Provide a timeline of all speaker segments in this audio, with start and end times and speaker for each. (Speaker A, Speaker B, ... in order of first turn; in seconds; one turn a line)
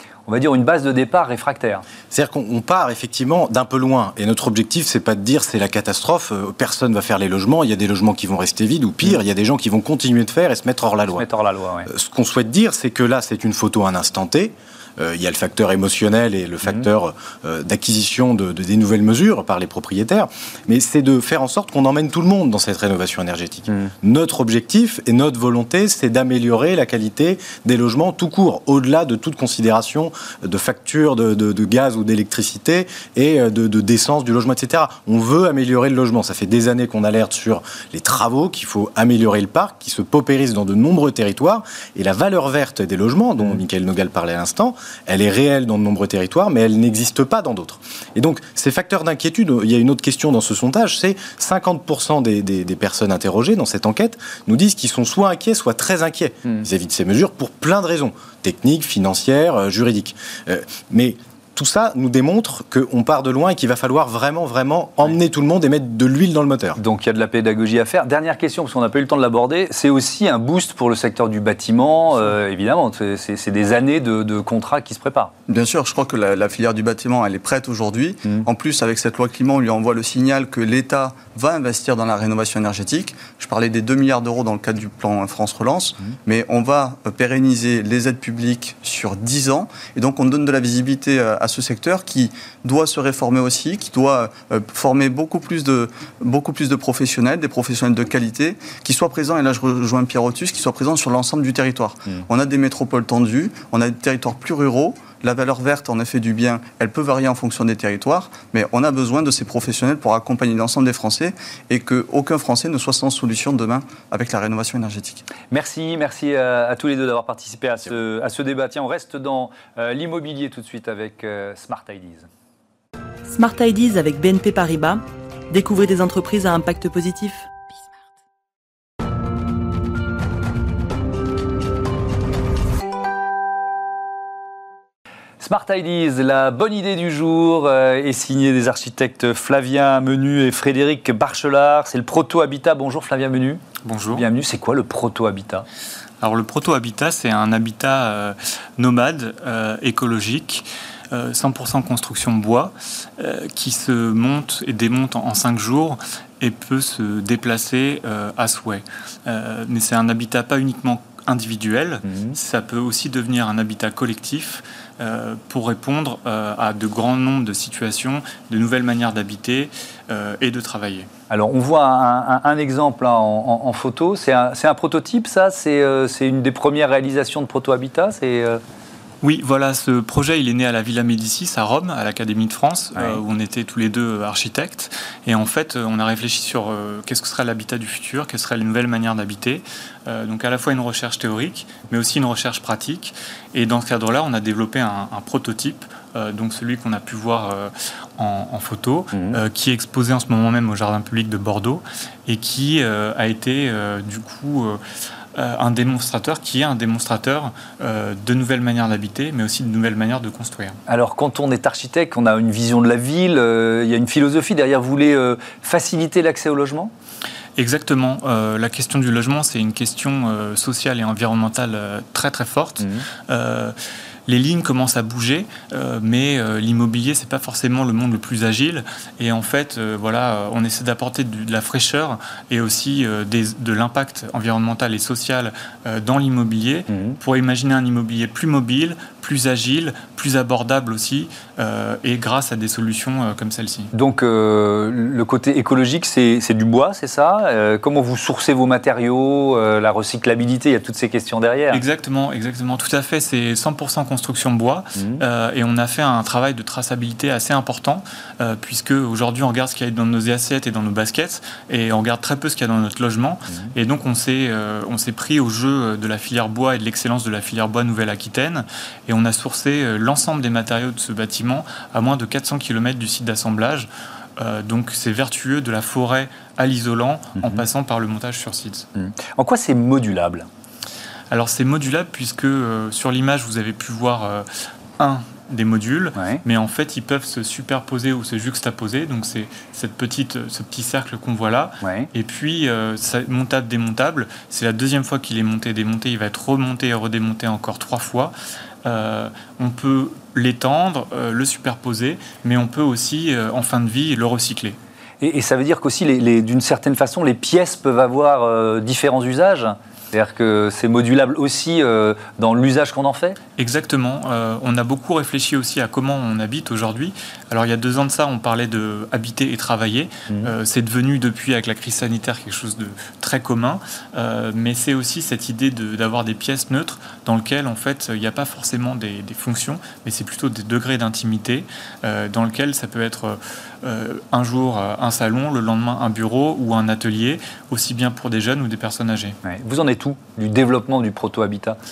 Speaker A: 0.3-1.8
Speaker B: 2.1-11.3
Speaker A: 11.1-11.9
Speaker B: 11.9-66.8
Speaker A: 66.8-75.3
Speaker C: 75.5-115.2
Speaker A: 115.5-122.3
Speaker D: 123.3-127.5
Speaker A: 135.4-143.6
Speaker E: 143.8-144.2
Speaker A: 144.1-145.7
Speaker E: 146.2-171.1
Speaker A: 162.0-162.4
Speaker A: 171.3-178.6
Speaker E: 179.2-204.8
Speaker A: 182.9-183.2
Speaker A: 199.1-199.4
Speaker E: 205.3-210.8
Speaker A: 210.9-216.9
Speaker E: 217.6-223.7
Speaker E: 224.3-243.9
Speaker A: 236.9-237.2
Speaker A: 243.9-251.8
Speaker E: 251.7-278.9
Speaker A: 255.0-255.2
Speaker A: 278.9-280.5
Speaker E: 281.3-284.5
Speaker E: 285.0-304.8
Speaker A: 286.1-286.4
Speaker A: 291.8-292.1
Speaker A: 305.2-313.4
Speaker E: 313.6-339.4
Speaker A: 339.4-341.8